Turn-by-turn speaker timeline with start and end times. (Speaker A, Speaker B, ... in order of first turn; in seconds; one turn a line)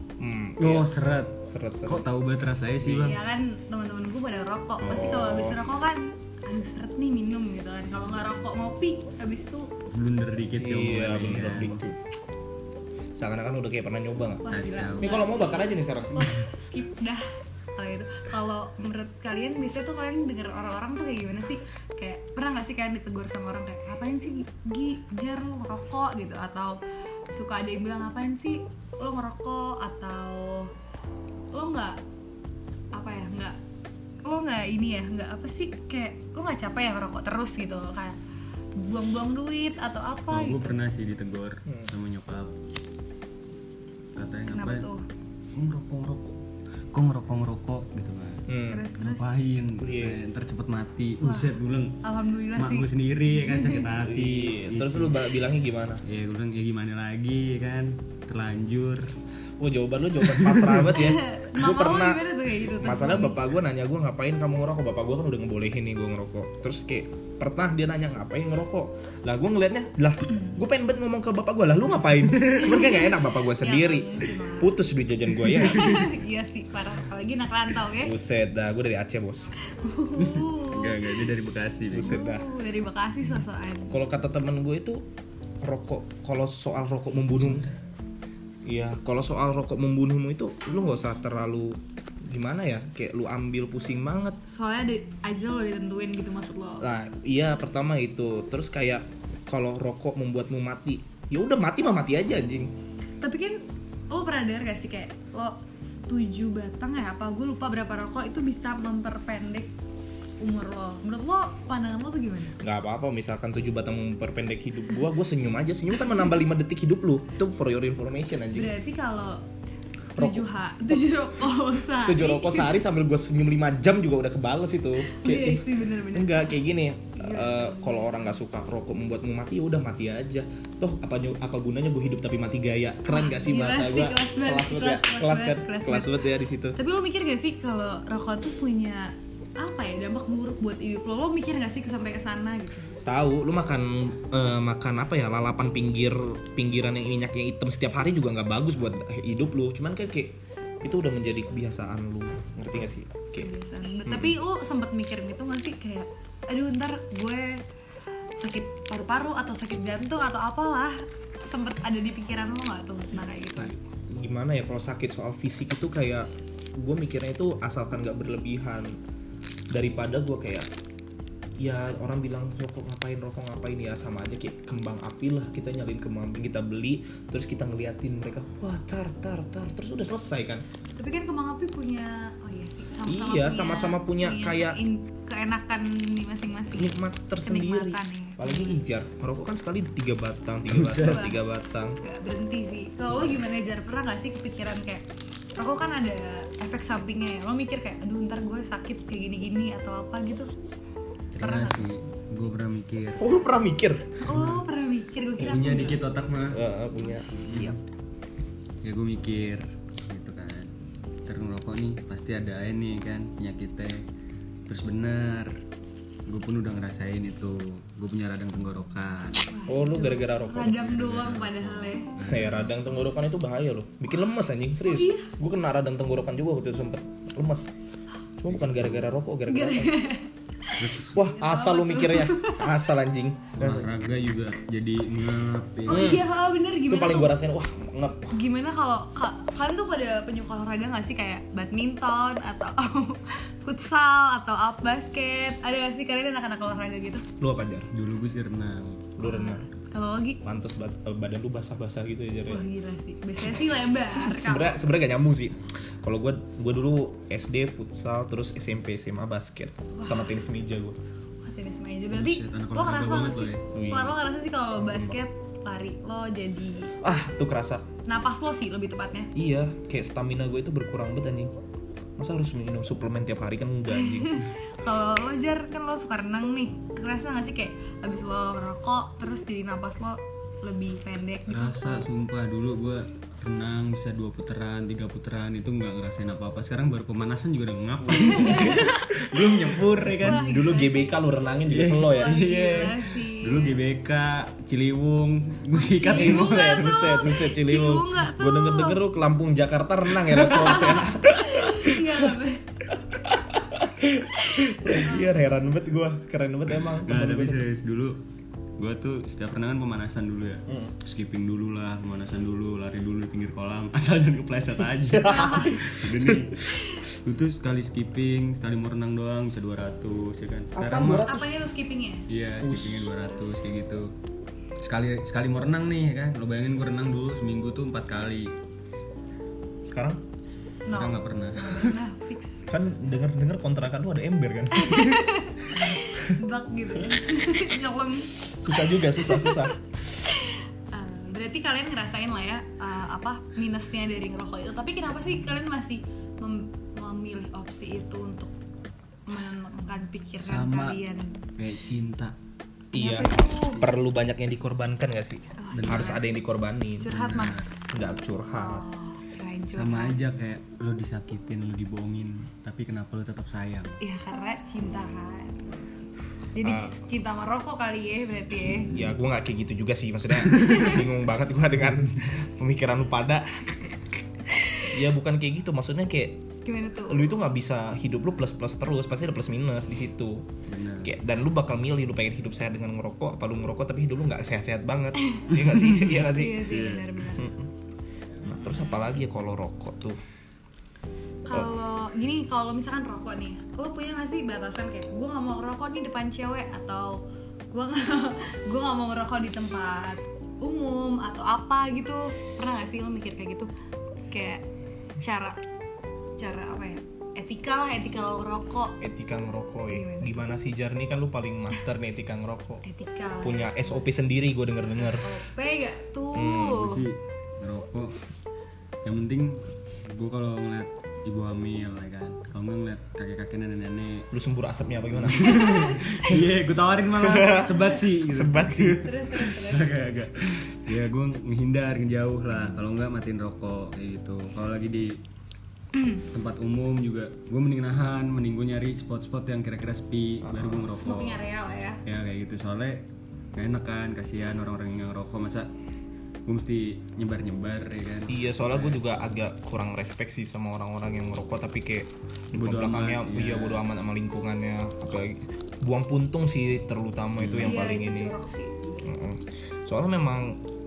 Speaker A: 0.2-2.0
Speaker B: 0.6-3.2
Speaker A: 2.8-3.1
Speaker C: 3.0-9.7
Speaker B: 4.8-5.2
Speaker A: 4.9-5.6
Speaker B: 9.9-11.9
Speaker A: 10.6-11.9
Speaker A: 13.1-16.3
Speaker C: 14.4-26.8
Speaker B: 14.5-15.3
Speaker C: 27.3-30.7
Speaker C: 31.5-32.0
Speaker C: 32.9-33.6
Speaker C: 34.2-38.2
Speaker C: 38.8-40.7
Speaker B: 40.3-42.5
Speaker B: 44.1-44.9
Speaker C: 44.5-45.0
Speaker B: 45.5-46.4
Speaker B: 46.9-48.5
Speaker A: 48.5-48.9
Speaker C: 48.7-49.4
Speaker B: 49.0-52.0
Speaker A: 49.8-50.2
Speaker C: 51.2-53.9
Speaker B: 52.5-55.2
Speaker A: 54.0-56.0
Speaker B: 56.0-59.2
Speaker A: 59.6-76.0
Speaker B: 60.2-60.9
Speaker C: 60.9-63.4
Speaker C: 72.7-74.8
Speaker C: 75.5-78.1
Speaker A: 78.0-79.5
Speaker C: 79.6-81.2
Speaker B: 80.2-82.2
Speaker A: 81.9-82.5
Speaker C: 82.0-84.0
Speaker A: 83.9-85.0
Speaker A: 85.6-87.7
Speaker A: 88.6-94.4
Speaker C: 94.5-96.9
Speaker A: 96.8-102.7
Speaker C: 103.2-109.7
Speaker C: 110.4-112.5
Speaker A: 112.6-118.7
Speaker C: 118.5-119.4
Speaker A: 120.2-120.5
Speaker C: 120.2-122.8
Speaker A: 122.0-136.8
Speaker C: 125.0-126.6
Speaker C: 127.2-128.3
Speaker C: 133.1-143.0
Speaker A: 143.0-153.5
Speaker C: 153.4-157.6
Speaker A: 154.1-154.4
Speaker C: 158.4-163.8
Speaker A: 163.5-169.0
Speaker A: 169.7-170.7
Speaker A: 171.6-180.6
Speaker C: 181.0-188.7
Speaker A: 183.1-184.8
Speaker A: 186.7-192.0
Speaker B: 190.7-191.3
Speaker C: 191.0-191.4
Speaker C: 192.0-200.5
Speaker B: 201.3-203.3
Speaker C: 201.4-201.9
Speaker A: 203.2-204.2
Speaker C: 204.2-206.0
Speaker B: 204.3-204.6
Speaker B: 205.4-206.6
Speaker A: 206.5-207.4
Speaker C: 207.1-207.8
Speaker B: 207.3-207.8
Speaker B: 208.8-210.7
Speaker B: 211.2-214.0
Speaker B: 214.7-215.5
Speaker B: 216.3-219.5
Speaker C: 219.5-222.1
Speaker A: 219.7-220.9
Speaker B: 220.6-223.0
Speaker A: 222.2-227.7
Speaker C: 224.8-225.3
Speaker A: 228.4-230.0
Speaker B: 228.7-229.1
Speaker C: 229.5-232.8
Speaker B: 230.8-231.2
Speaker A: 231.1-233.9
Speaker B: 233.6-236.2
Speaker C: 235.9-237.3
Speaker A: 235.9-236.3
Speaker A: 236.9-238.3
Speaker C: 238.3-247.2
Speaker A: 247.4-247.9
Speaker B: 247.9-249.1
Speaker A: 249.2-249.7
Speaker C: 249.2-250.4
Speaker A: 250.4-252.6
Speaker C: 252.5-254.8
Speaker A: 253.6-261.0
Speaker C: 259.9-260.4
Speaker C: 261.4-266.9
Speaker B: 262.1-263.7
Speaker A: 263.7-264.2
Speaker A: 264.8-265.1
Speaker A: 267.0-267.9
Speaker C: 268.0-269.3
Speaker A: 269.4-271.5
Speaker A: 272.2-274.4
Speaker C: 273.9-282.1
Speaker B: 281.5-290.5
Speaker A: 288.1-292.6
Speaker C: 288.1-288.9
Speaker C: 290.2-291.1
Speaker B: 291.7-297.0
Speaker C: 292.1-293.8
Speaker C: 295.7-299.0
Speaker A: 296.1-302.3
Speaker C: 300.4-302.8
Speaker A: 302.9-307.6
Speaker C: 304.6-305.3
Speaker B: 306.9-308.2
Speaker B: 308.8-321.3
Speaker A: 310.7-310.9
Speaker A: 315.1-316.8
Speaker C: 315.2-315.8
Speaker A: 320.8-321.6
Speaker C: 321.1-322.3
Speaker B: 322.3-324.1
Speaker A: 322.6-323.1
Speaker B: 324.8-328.5
Speaker A: 329.9-330.2
Speaker C: 330.9-332.7
Speaker B: 330.9-332.0
Speaker A: 332.7-336.4
Speaker C: 334.7-348.5
Speaker A: 338.4-339.8
Speaker C: 349.2-351.4
Speaker B: 350.4-351.0
Speaker B: 351.6-352.4
Speaker A: 352.9-357.2
Speaker C: 352.9-353.8
Speaker C: 355.6-356.3
Speaker B: 355.7-356.1
Speaker C: 357.0-357.8
Speaker B: 357.1-357.7
Speaker A: 357.9-358.8
Speaker C: 358.5-360.2
Speaker B: 359.7-364.0
Speaker C: 364.0-365.7
Speaker C: 366.5-368.9
Speaker A: 366.6-367.0
Speaker A: 368.9-374.0
Speaker C: 370.6-371.0
Speaker C: 374.5-374.9
Speaker A: 374.8-376.4
Speaker C: 376.6-377.3
Speaker A: 377.1-380.5
Speaker B: 380.7-381.1
Speaker A: 381.0-386.8
Speaker C: 385.2-385.5
Speaker B: 385.8-387.2
Speaker C: 386.2-387.5
Speaker A: 387.3-387.7
Speaker A: 388.4-390.2
Speaker C: 388.5-389.0
Speaker C: 391.5-403.7
Speaker C: 404.3-404.6
Speaker C: 405.2-405.6
Speaker C: 406.4-409.0
Speaker A: 409.0-412.8
Speaker C: 409.9-410.4
Speaker C: 412.8-414.0
Speaker A: 413.4-415.3
Speaker C: 415.0-417.1
Speaker A: 416.3-416.9
Speaker B: 416.8-418.2
Speaker B: 419.0-424.3
Speaker A: 424.3-426.4
Speaker B: 425.2-435.2
Speaker C: 425.6-426.0
Speaker A: 427.2-429.1
Speaker C: 429.0-430.0
Speaker C: 436.0-436.2
Speaker B: 436.2-441.4
Speaker A: 440.4-440.9
Speaker C: 440.9-442.0
Speaker B: 442.0-445.7
Speaker B: 446.5-449.0
Speaker A: 448.3-458.3
Speaker B: 452.5-453.8
Speaker B: 457.4-457.9
Speaker C: 457.6-459.1
Speaker A: 459.0-460.6